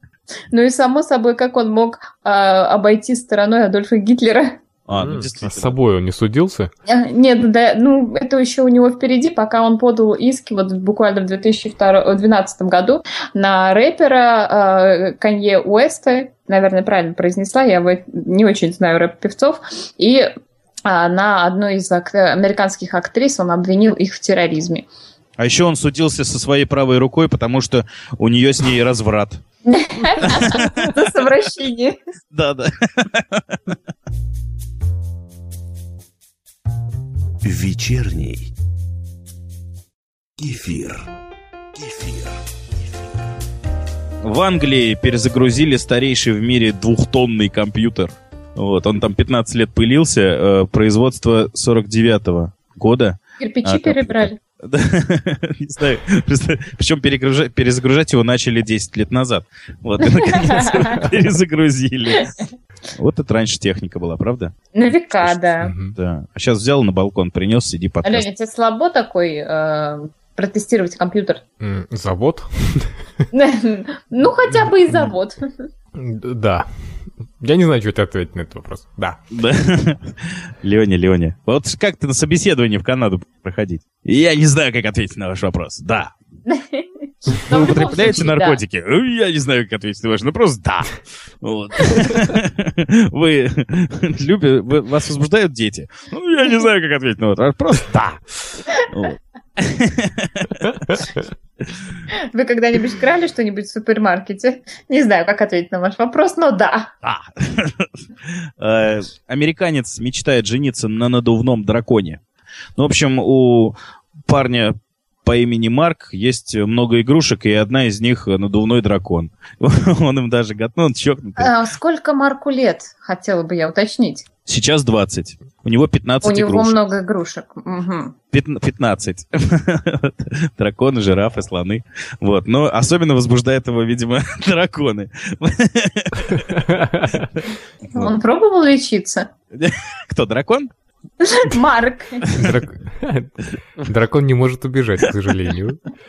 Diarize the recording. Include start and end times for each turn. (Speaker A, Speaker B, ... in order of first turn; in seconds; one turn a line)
Speaker A: 0.5-4.6
Speaker B: 4.9-5.8
Speaker C: 4.9-6.7
Speaker A: 6.8-20.3
Speaker A: 20.8-24.9
Speaker B: 25.4-29.4
Speaker A: 29.6-32.0
Speaker B: 30.2-30.9
Speaker B: 32.3-33.6
Speaker D: 37.4-38.5
Speaker D: 40.4-41.0
Speaker D: 41.8-42.3
Speaker B: 44.2-62.3
Speaker A: 53.4-54.4
Speaker A: 60.2-61.0
Speaker B: 62.9-64.5
Speaker A: 64.7-65.7
Speaker C: 65.6-65.9
Speaker B: 65.9-68.2
Speaker A: 68.0-71.4
Speaker C: 71.6-72.9
Speaker A: 73.3-75.7
Speaker C: 74.5-75.1
Speaker C: 75.9-76.7
Speaker C: 77.4-79.2
Speaker B: 79.3-86.1
Speaker A: 86.5-88.6
Speaker B: 87.4-101.0
Speaker A: 102.1-106.9
Speaker B: 107.0-112.2
Speaker B: 112.8-113.7
Speaker B: 114.2-121.5
Speaker A: 121.4-124.2
Speaker B: 124.5-126.8
Speaker A: 126.2-128.1
Speaker B: 128.3-136.4
Speaker C: 136.3-137.3
Speaker B: 137.2-137.4
Speaker A: 137.9-139.3
Speaker B: 139.5-140.7
Speaker A: 141.2-142.3
Speaker C: 142.3-145.8